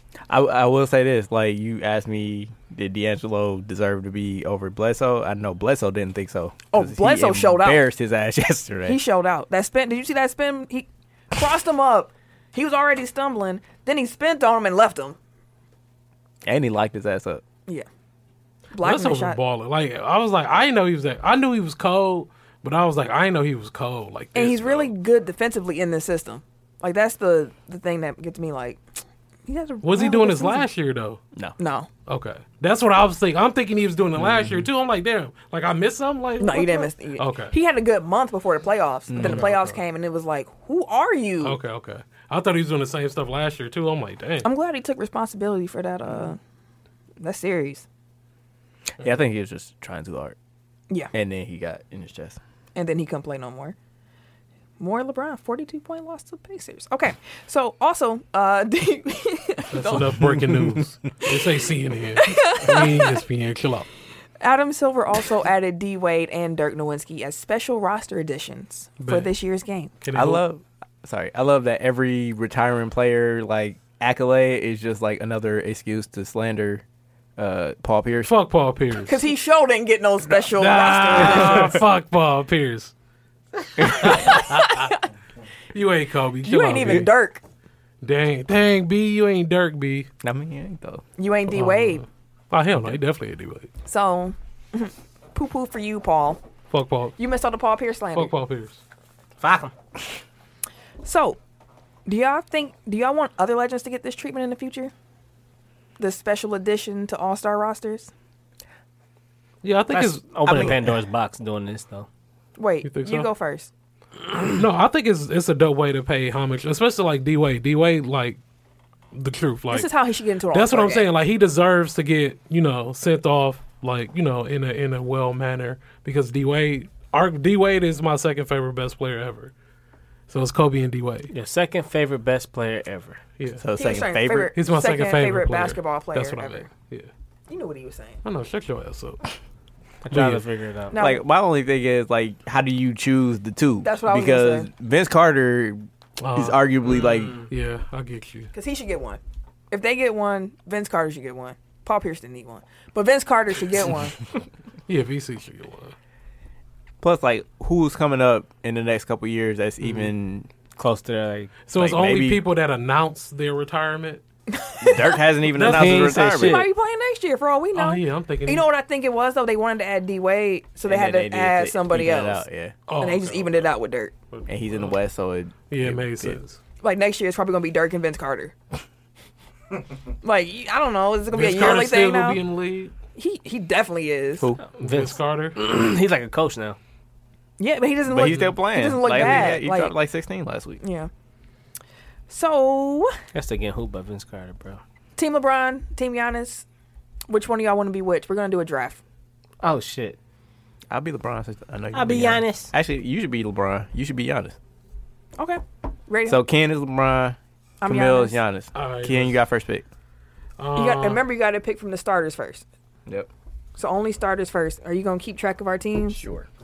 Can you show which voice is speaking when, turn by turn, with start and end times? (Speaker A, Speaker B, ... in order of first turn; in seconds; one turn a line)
Speaker A: 0.3-9.0
Speaker B: 6.7-7.8
Speaker B: 8.8-15.2
Speaker A: 16.4-17.4
Speaker B: 18.7-19.4
Speaker C: 18.8-24.9
Speaker B: 24.3-28.8
Speaker B: 29.5-30.7
Speaker C: 29.8-31.2
Speaker B: 31.6-31.9
Speaker C: 32.1-37.5
Speaker A: 34.2-34.7
Speaker B: 36.4-41.6
Speaker A: 39.1-39.5
Speaker C: 39.2-39.8
Speaker C: 41.4-44.5
Speaker B: 44.4-46.4
Speaker B: 47.2-47.8
Speaker A: 49.0-50.3
Speaker A: 51.1-52.4
Speaker B: 52.7-53.8
Speaker B: 54.8-60.3
Speaker C: 59.7-63.9
Speaker B: 62.1-63.2
Speaker B: 64.4-69.9
Speaker C: 69.0-69.3
Speaker C: 70.0-70.4
Speaker A: 70.1-76.8
Speaker A: 77.4-78.3
Speaker C: 78.2-79.2
Speaker B: 79.0-81.8
Speaker C: 80.4-82.9
Speaker C: 83.8-84.9
Speaker B: 83.9-85.0
Speaker C: 85.7-87.1
Speaker B: 86.4-87.4
Speaker C: 88.0-90.1
Speaker A: 90.2-91.0
Speaker B: 91.2-92.0
Speaker C: 91.5-93.7
Speaker B: 93.8-96.4
Speaker C: 96.7-97.2
Speaker B: 97.2-98.3
Speaker C: 98.1-98.8
Speaker D: 99.4-99.7
Speaker B: 101.0-101.4
Speaker B: 102.0-104.9
Speaker B: 106.0-108.1
Speaker C: 109.6-110.9
Speaker D: 109.9-112.1
Speaker A: 110.5-110.8
Speaker B: 112.6-113.7
Speaker C: 112.8-113.3
Speaker C: 114.4-118.4
Speaker C: 119.1-119.9
Speaker B: 119.7-121.1
Speaker C: 120.5-129.5
Speaker C: 130.3-131.3
Speaker D: 131.3-133.2
Speaker C: 133.4-133.6
Speaker A: 133.6-134.5
Speaker B: 133.8-136.7
Speaker C: 134.5-137.1
Speaker B: 137.5-138.2
Speaker C: 138.2-139.3
Speaker D: 140.0-140.9
Speaker C: 140.1-140.4
Speaker B: 140.9-141.2
Speaker A: 141.0-145.8
Speaker B: 143.8-144.7
Speaker C: 146.2-148.5
Speaker A: 146.3-147.4
Speaker B: 148.5-149.2
Speaker B: 149.7-154.2
Speaker C: 154.9-155.9
Speaker A: 157.0-160.5
Speaker D: 160.8-161.5
Speaker C: 161.7-164.2
Speaker A: 161.7-162.4
Speaker B: 164.5-165.2
Speaker A: 164.8-166.6
Speaker C: 165.5-166.3
Speaker D: 165.6-166.7
Speaker B: 166.4-172.4
Speaker C: 167.7-168.7
Speaker A: 170.8-172.8
Speaker C: 172.9-173.7
Speaker B: 173.0-174.1
Speaker C: 174.3-175.0
Speaker A: 174.5-176.4
Speaker C: 175.7-176.6
Speaker B: 176.8-178.5
Speaker B: 180.2-182.4
Speaker C: 181.3-182.9
Speaker B: 183.2-184.5
Speaker A: 184.4-184.6
Speaker C: 184.8-185.6
Speaker D: 184.8-186.8
Speaker B: 187.6-189.9
Speaker A: 188.1-190.8
Speaker C: 189.2-189.6
Speaker B: 190.8-191.1
Speaker B: 192.3-193.2
Speaker D: 193.3-194.8
Speaker B: 195.2-196.6
Speaker B: 197.3-199.0
Speaker D: 199.6-200.2
Speaker A: 200.9-204.6
Speaker D: 201.9-202.7
Speaker B: 205.4-206.4
Speaker A: 206.2-209.9
Speaker B: 207.8-208.4
Speaker C: 208.7-209.4
Speaker C: 210.6-211.2
Speaker B: 210.7-212.6
Speaker B: 213.8-216.2
Speaker A: 216.1-216.5